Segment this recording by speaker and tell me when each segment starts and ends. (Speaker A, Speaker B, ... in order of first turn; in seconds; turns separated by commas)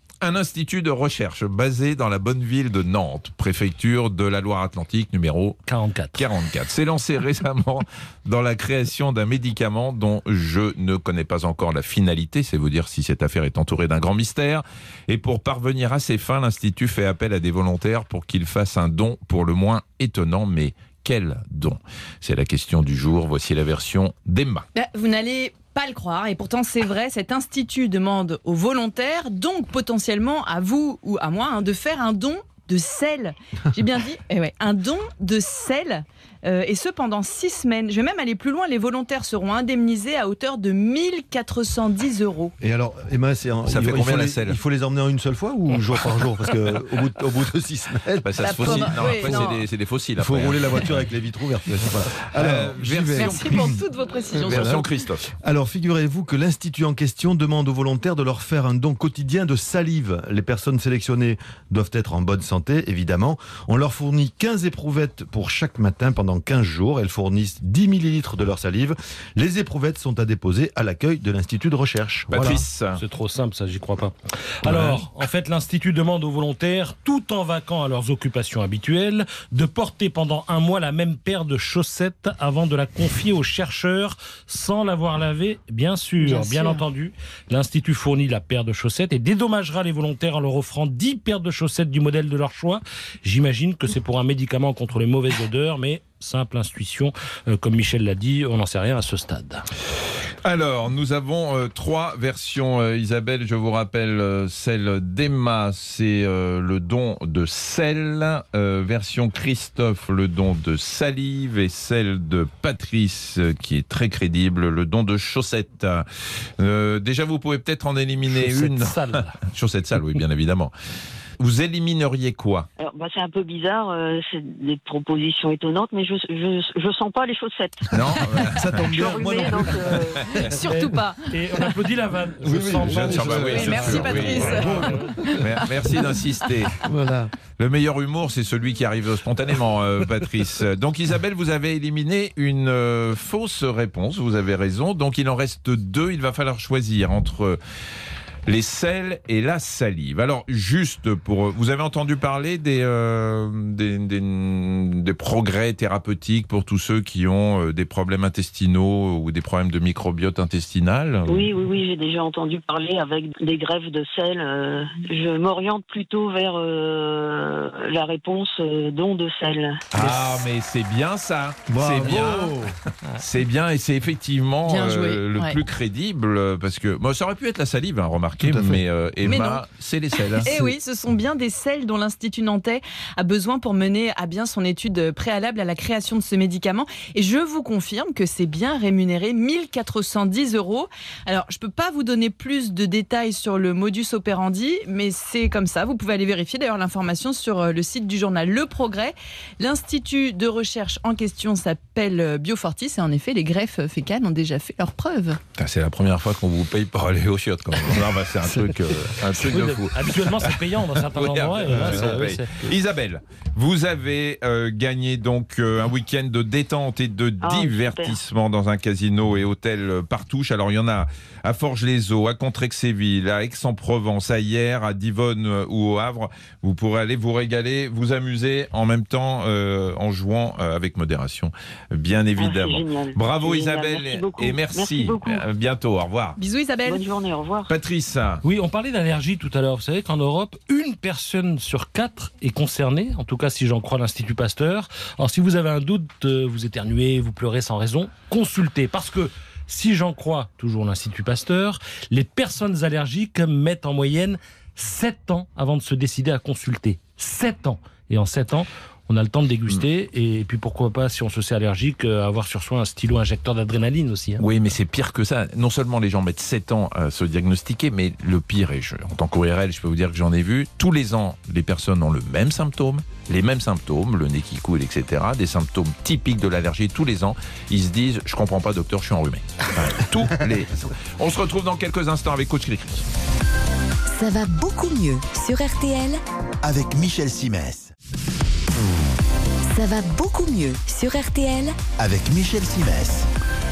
Speaker A: 0.2-5.6, Speaker B: 5.7-6.2, Speaker A: 6.2-24.7, Speaker C: 24.8-42.5, Speaker D: 42.6-49.6, Speaker A: 43.7-44.6, Speaker A: 48.2-51.0, Speaker C: 48.4-49.6, Speaker D: 50.2-53.8, Speaker A: 51.7-53.8, Speaker C: 53.1-54.9, Speaker A: 54.4-55.3, Speaker D: 54.5-54.8, Speaker D: 55.4-72.6, Speaker A: 72.3-73.0, Speaker B: 73.0-99.7, Speaker A: 74.7-75.0, Speaker C: 86.2-86.8, Speaker A: 100.4-116.1, Speaker A: 116.6-120.7, Speaker B: 118.3-119.4, Speaker A: 121.4-122.7, Speaker E: 122.8-130.4, Speaker A: 127.9-130.0, Speaker D: 128.5-130.0, Speaker C: 130.3-131.7, Speaker B: 130.7-135.1, Speaker D: 132.4-135.5, Speaker A: 132.9-134.8, Speaker C: 133.4-136.6, Speaker A: 135.4-136.8, Speaker D: 136.8-137.3, Speaker A: 137.6-147.6, Speaker A: 148.5-161.5, Speaker E: 161.3-169.8, Speaker A: 169.9-180.5, Speaker B: 170.0-170.4, Speaker D: 171.7-172.7, Speaker C: 174.7-175.6, Speaker D: 178.4-178.8, Speaker C: 179.2-179.6, Speaker C: 180.2-205.4, Speaker A: 205.6-236.4, Speaker B: 209.3-212.7, Speaker D: 211.7-212.1, Speaker E: 217.4-218.2, Speaker E: 232.4-235.4, Speaker C: 236.4-237.1, Speaker E: 236.8-237.7, Speaker A: 237.7-238.4, Speaker B: 238.4-264.4, Speaker A: 264.4-283.1, Speaker F: 284.1-286.2, Speaker G: 286.6-287.9, Speaker F: 289.7-291.8, Speaker G: 292.0-293.3